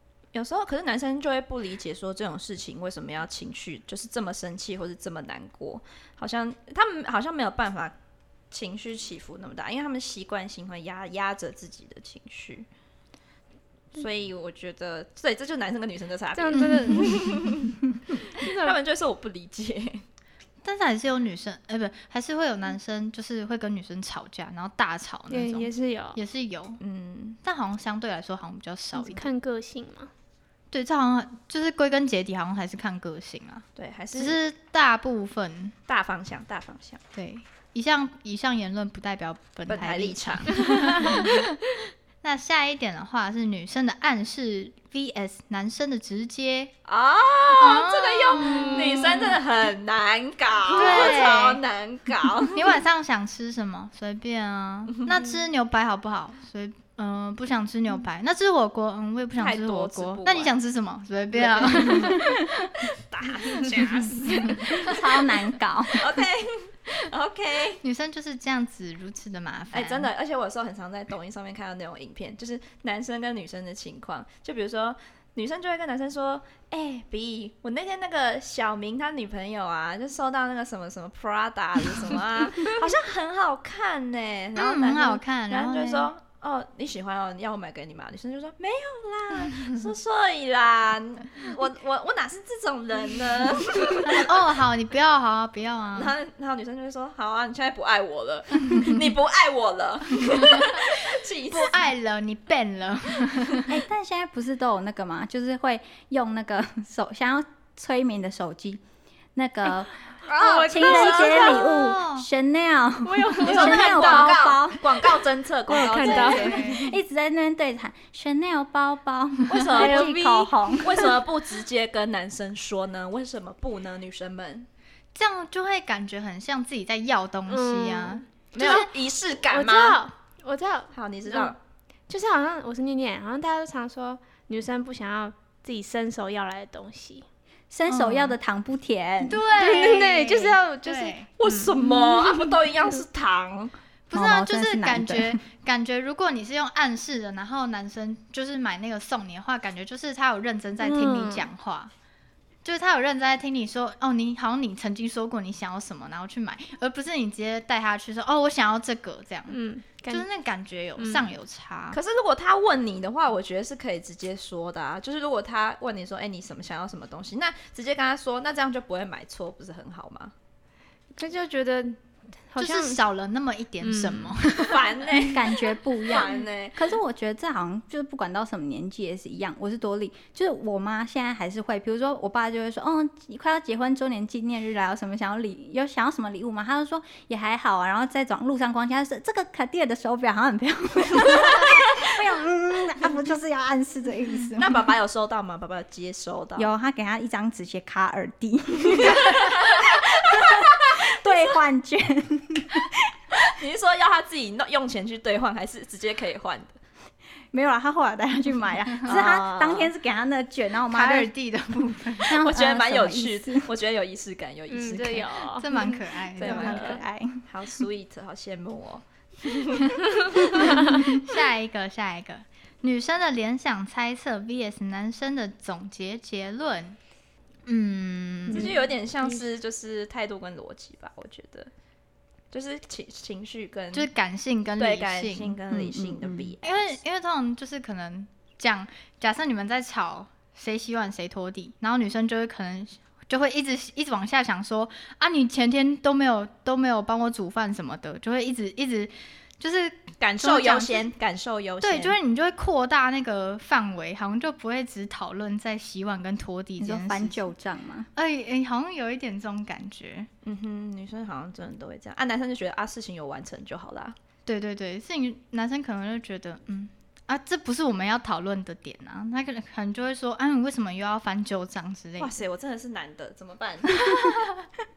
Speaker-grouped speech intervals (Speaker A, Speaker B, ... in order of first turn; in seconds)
Speaker A: 0.3-7.9, 8.5-12.7, 13.9-20.1, 26.8-27.4, 33.8-34.4, 35.9-37.0, 39.7-41.4, 46.8-52.8, 59.4-60.5, 61.3-62.3, 62.8-65.0, 65.9-67.8, 69.7-94.5, 95.9-101.9, 110.3-111.8, 113.3-116.7, 119.5-120.1, 120.8-124.7, 128.5-130.0, 130.9-131.6, 141.4-143.7, 161.9-170.3, 174.6-176.9, 194.6-196.7, 198.9-201.4, 203.4-206.8, 209.1-209.9, 212.3-215.8, 216.3-220.9, 228.5-231.7, 232.5-234.1, 234.8-237.0, 250.2-252.2, 260.4-264.1, 272.2-274.3
Speaker B: 16.3-17.4, 18.4-18.8, 25.3-26.2, 28.9-30.1, 110.3-111.6, 113.0-114.3, 115.7-116.9, 119.7-121.1, 127.5-128.8, 129.5-131.5, 132.1-137.2, 139.5-142.5, 150.8-151.5, 159.5-160.2, 161.0-161.3, 171.1-172.0, 172.5-173.0, 173.8-174.4, 214.7-216.0, 228.5-229.4
Speaker C: 20.6-26.8, 27.4-29.3, 30.7-35.7, 37.1-41.5, 42.2-46.7, 47.6-49.4, 50.7-51.6, 52.5-62.5, 64.3-64.7, 67.8-70.1, 84.6-86.1, 94.0-96.1, 101.5-103.8, 111.6-112.3, 116.0-116.8, 125.1-128.9, 137.9-138.3, 139.2-141.3, 144.1-151.9, 152.6-159.6, 160.1-162.0, 172.6-175.0, 210.9-212.3, 215.6-217.0, 220.7-227.0, 227.7-228.7, 233.9-235.6, 236.6-251.1, 251.8-257.4, 258.1-260.3, 264.4-272.3, 273.9-274.4
Speaker D: 64.7-66.2, 103.7-108.8, 109.3-109.9, 110.5-115.1, 115.8-121.1, 137.7-139.4, 144.1-145.4, 175.3-194.8, 196.6-203.4, 207.5-211.3, 212.2-213.7, 216.4-217.4, 235.7-236.5, 256.8-258.1